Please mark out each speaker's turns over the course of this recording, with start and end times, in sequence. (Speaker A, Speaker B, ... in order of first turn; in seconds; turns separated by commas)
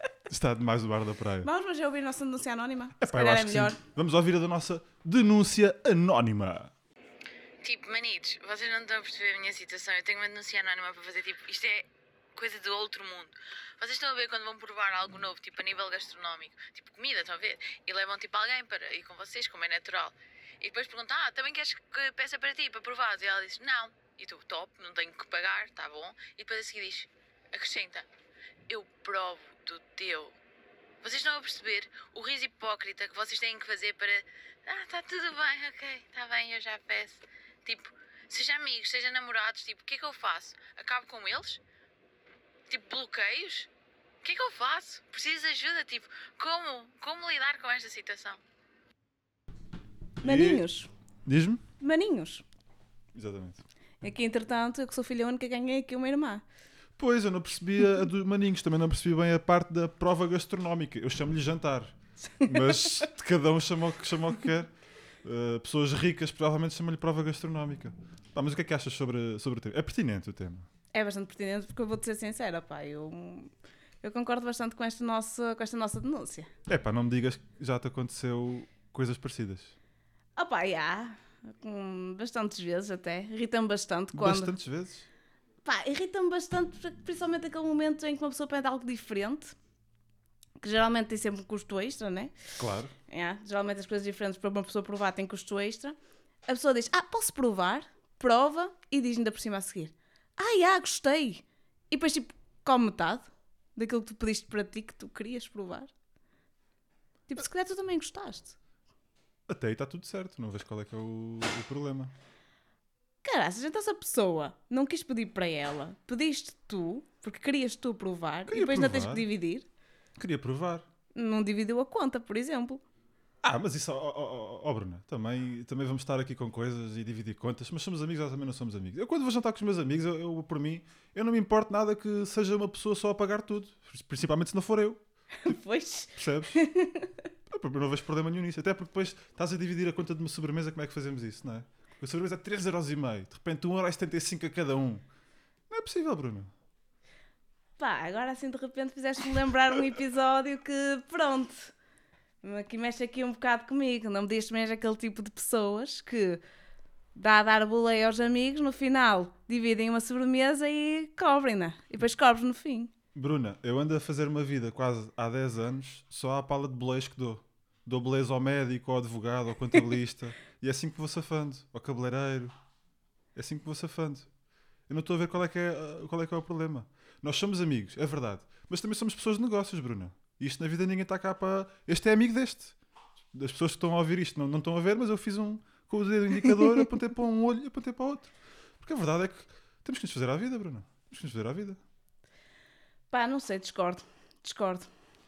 Speaker A: 0.3-1.5, Speaker B: 1.4-3.8, Speaker A: 3.0-6.7, Speaker C: 7.6-28.1, Speaker C: 28.7-30.4, Speaker C: 31.0-41.6, Speaker C: 42.7-43.7, Speaker C: 44.2-48.4, Speaker A: 50.2-50.6, Speaker B: 50.2-50.9, Speaker A: 51.2-51.6, Speaker B: 51.8-52.4, Speaker A: 53.1-53.6, Speaker B: 54.0-56.4, Speaker A: 57.0-64.7, Speaker B: 62.4-63.0, Speaker A: 65.2-70.7, Speaker B: 70.9-76.5, Speaker A: 76.7-79.7, Speaker B: 80.3-84.5, Speaker A: 84.1-85.1, Speaker B: 85.6-89.5, Speaker B: 90.6-92.3, Speaker A: 92.6-92.9, Speaker B: 93.1-96.0, Speaker B: 96.5-105.9, Speaker B: 107.3-108.5, Speaker A: 109.5-112.1, Speaker B: 113.2-119.7, Speaker A: 118.5-119.2, Speaker A: 120.2-120.9, Speaker B: 121.1-122.8, Speaker A: 123.4-135.5, Speaker B: 135.4-137.2, Speaker A: 136.1-136.6, Speaker A: 137.5-145.0, Speaker A: 145.7-146.5, Speaker B: 147.8-151.7, Speaker B: 152.4-156.4, Speaker B: 157.1-162.9, Speaker A: 163.1-172.5, Speaker A: 173.3-174.3, Speaker A: 174.9-182.7, Speaker A: 183.3-191.8, Speaker B: 193.1-194.9